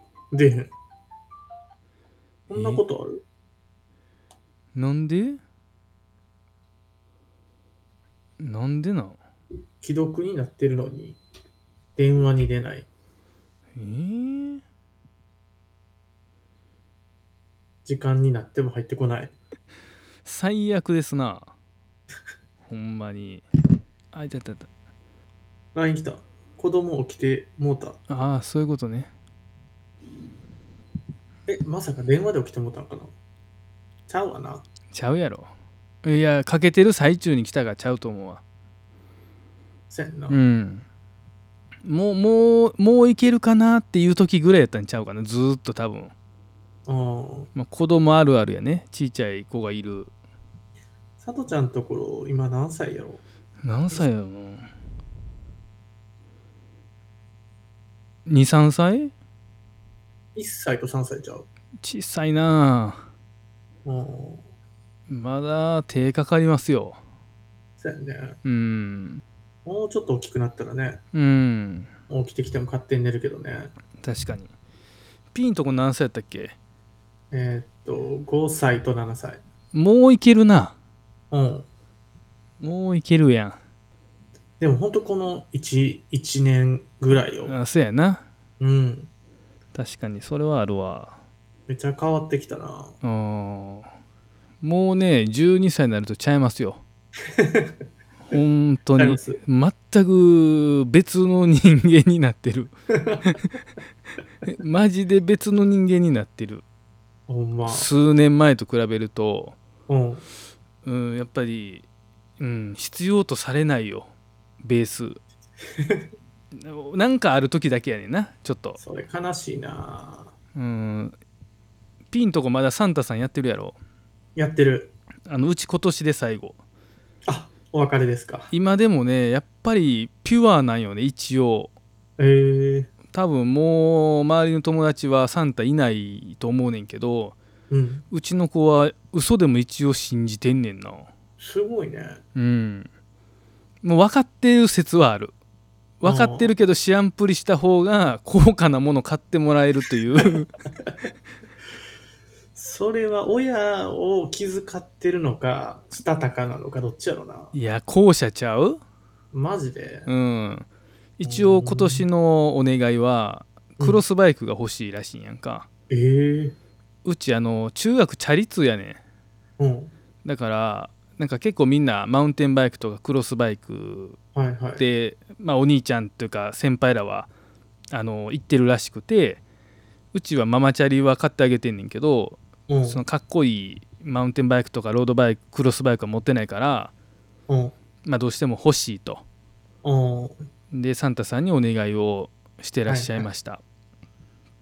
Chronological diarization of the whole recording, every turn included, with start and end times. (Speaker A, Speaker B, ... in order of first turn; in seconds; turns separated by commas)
Speaker A: 0.3-0.7, Speaker B: 2.5-2.8, Speaker A: 2.5-3.2, Speaker B: 4.7-5.4, Speaker B: 8.4-9.2, Speaker A: 9.8-11.2, Speaker A: 12.0-12.9, Speaker B: 13.8-14.6, Speaker A: 17.9-19.3, Speaker B: 20.2-21.5, Speaker B: 22.7-23.4, Speaker B: 24.1-24.7, Speaker A: 25.7-28.0, Speaker B: 28.1-29.1, Speaker A: 31.5-33.1, Speaker A: 34.1-34.6, Speaker B: 34.9-35.5, Speaker B: 36.0-38.4, Speaker A: 39.9-40.4, Speaker B: 40.3-40.8, Speaker B: 41.9-46.1, Speaker A: 46.9-47.5, Speaker B: 47.5-50.1, Speaker A: 51.2-53.2, Speaker B: 53.6-54.7, Speaker B: 58.3-59.1, Speaker A: 60.4-61.5, Speaker B: 61.8-63.0, Speaker A: 63.8-64.4, Speaker B: 65.1-67.0, Speaker A: 67.8-68.4, Speaker B: 68.4-69.2, Speaker A: 69.6-71.0, Speaker B: 71.1-71.9, Speaker A: 72.1-73.7, Speaker B: 74.0-74.5, Speaker B: 75.3-76.5, Speaker A: 77.3-79.4, Speaker B: 79.7-80.7, Speaker A: 81.3-81.7, Speaker B: 82.6-83.6, Speaker A: 84.6-87.5, Speaker B: 87.5-88.2, Speaker A: 88.6-89.1, Speaker B: 89.7-91.2, Speaker A: 91.7-92.9, Speaker B: 93.0-93.9, Speaker B: 94.6-96.8, Speaker A: 97.3-97.7, Speaker B: 98.3-102.7, Speaker A: 99.0-99.4, Speaker A: 102.9-103.3, Speaker B: 104.5-106.6, Speaker A: 107.3-107.9, Speaker B: 107.7-109.5, Speaker A: 109.9-110.2, Speaker B: 110.8-111.8, Speaker B: 112.4-114.1, Speaker B: 114.6-115.2, Speaker A: 115.8-116.0, Speaker B: 116.5-118.8, Speaker A: 118.8-120.3, Speaker B: 120.5-121.1, Speaker B: 122.1-123.8, Speaker A: 124.3-124.9, Speaker B: 125.3-126.6, Speaker A: 127.2-128.5, Speaker B: 128.5-131.7, Speaker A: 132.2-132.9, Speaker B: 133.1-137.3, Speaker A: 137.7-138.0, Speaker B: 138.1-141.1, Speaker A: 141.4-142.2, Speaker B: 142.3-142.9, Speaker B: 143.8-145.3, Speaker B: 146.0-150.5, Speaker A: 146.0-146.5, Speaker A: 150.8-151.1, Speaker A: 152.6-157.5, Speaker B: 157.5-158.8, Speaker A: 159.3-160.1, Speaker B: 160.1-160.7, Speaker B: 161.2-165.7, Speaker A: 161.2-162.1, Speaker A: 163.8-164.0, Speaker A: 165.9-166.6, Speaker B: 167.0-169.0, Speaker A: 169.6-169.9, Speaker B: 170.2-174.2, Speaker A: 174.3-174.8, Speaker B: 174.8-177.3, Speaker B: 177.9-179.4, Speaker B: 180.1-186.9, Speaker A: 182.7-183.0, Speaker A: 187.5-187.7, Speaker B: 188.0-189.2, Speaker A: 189.8-190.4, Speaker B: 190.7-193.6, Speaker A: 192.9-193.3